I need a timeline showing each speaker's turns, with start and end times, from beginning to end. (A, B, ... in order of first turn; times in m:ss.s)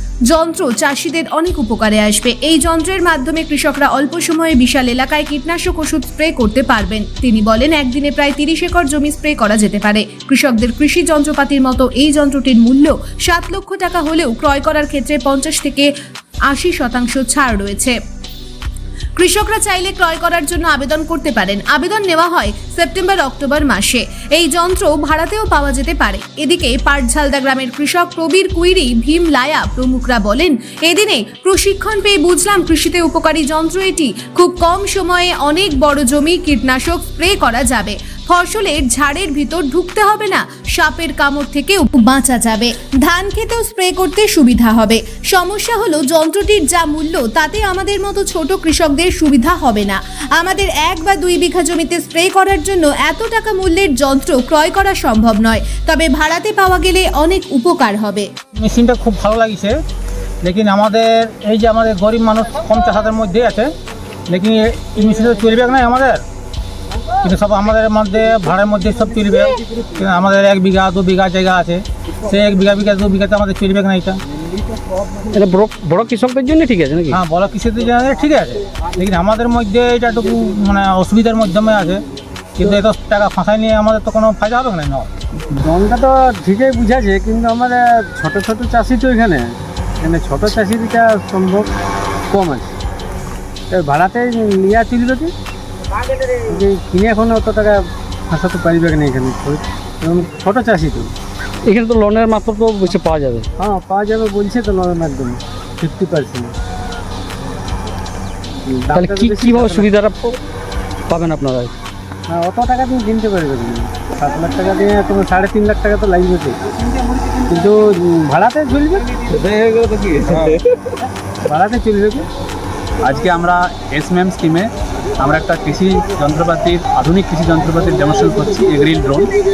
0:00.3-0:15.9 A
0:16.5-0:18.0 A
0:19.2-0:58.3 A
0:58.6-0:59.8 B
1:00.4-1:03.7 B
1:04.3-1:06.2 B
1:07.2-1:14.2 B
1:15.3-1:17.2 C
1:17.1-1:22.0 B
1:22.6-1:25.1 B
1:25.4-1:31.7 D
1:32.3-1:32.7 D
1:33.7-1:35.3 D
1:36.4-1:41.1 D
1:41.6-1:43.5 C
1:43.6-1:46.5 D
1:48.6-1:49.9 D
1:48.9-1:50.4 C
1:51.1-1:51.7 C
1:52.3-1:56.6 D
1:57.4-1:59.5 D
2:00.1-2:00.6 D
2:01.4-2:02.3 D
2:03.0-2:04.7 E
2:05.2-2:09.3 E